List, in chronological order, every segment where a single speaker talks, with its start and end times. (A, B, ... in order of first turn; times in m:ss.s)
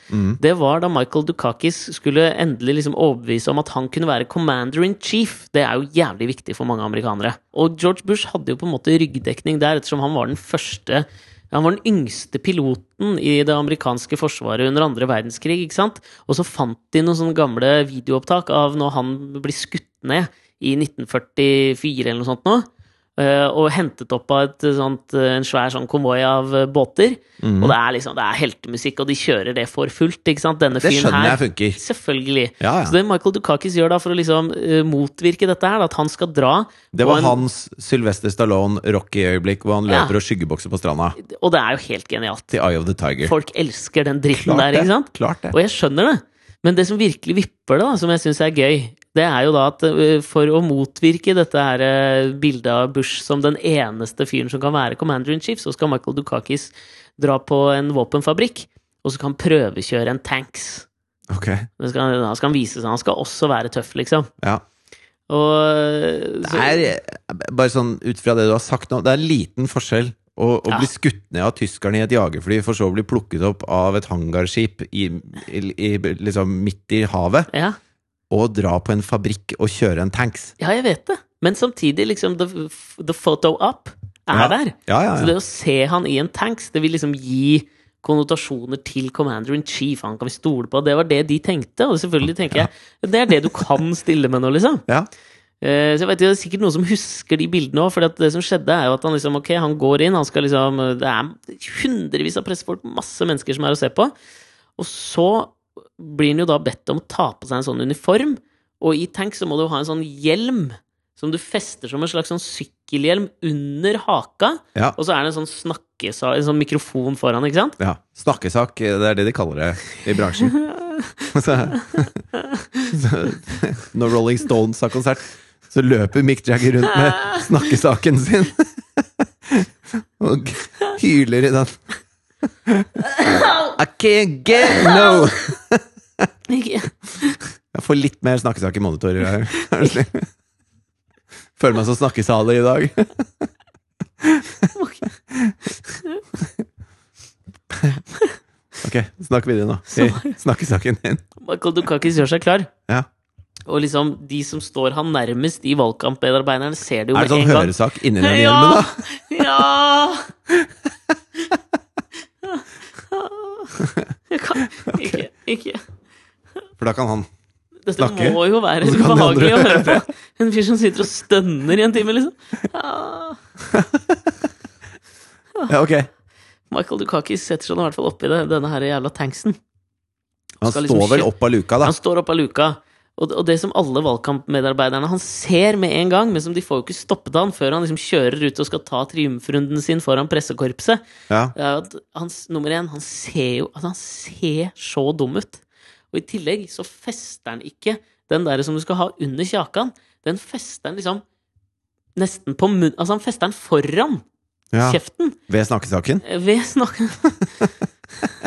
0:00.1-0:00.4 A
0:00.4-0:37.4 B
0:27.4-0:27.8 A
0:30.8-0:31.8 A
0:32.6-0:33.0 A
0:36.9-0:41.2 A
0:39.9-0:40.2 B
0:41.2-0:42.6 B
0:42.5-0:43.3 A
0:43.2-1:00.9 B
0:44.3-0:45.6 A
1:01.3-1:01.7 A
1:01.8-1:04.3 B
1:05.3-1:06.9 B
1:06.4-1:17.5 A
1:17.5-1:17.8 B
1:18.3-1:20.5 A
1:20.6-1:34.8 B
1:24.3-1:25.3 A
1:35.6-1:44.1 B
1:44.8-1:57.8 B
1:57.8-2:00.6 A
2:00.8-2:01.1 B
2:01.3-2:02.2 A
2:02.4-2:02.9 B
2:02.9-2:11.8 A
2:13.2-2:13.7 B
2:13.4-2:16.3 A
2:16.5-2:17.4 B
2:17.7-2:20.3 A
2:21.6-2:23.5 A
2:24.2-2:24.7 A
2:24.8-2:25.1 B
2:27.7-2:28.0 A
2:28.8-2:31.2 A
2:29.9-2:30.4 B
2:31.4-2:32.7 B
2:33.7-2:40.3 B
2:37.1-2:39.0 A
2:42.4-2:45.8 B
2:43.8-2:44.1 A
2:44.9-2:45.3 A
2:46.8-2:47.3 A
2:47.9-2:53.4 B
2:48.0-2:50.1 A
2:53.7-2:54.3 A
2:55.7-2:56.1 A
2:56.7-2:59.6 B
3:00.6-3:01.9 A
3:00.6-3:01.3 B
3:01.8-3:11.0 B
3:11.3-3:11.5 A
3:11.6-3:21.2 B
3:22.2-3:24.2 B
3:24.7-3:26.2 A
3:24.8-3:25.4 B
3:26.2-3:27.7 B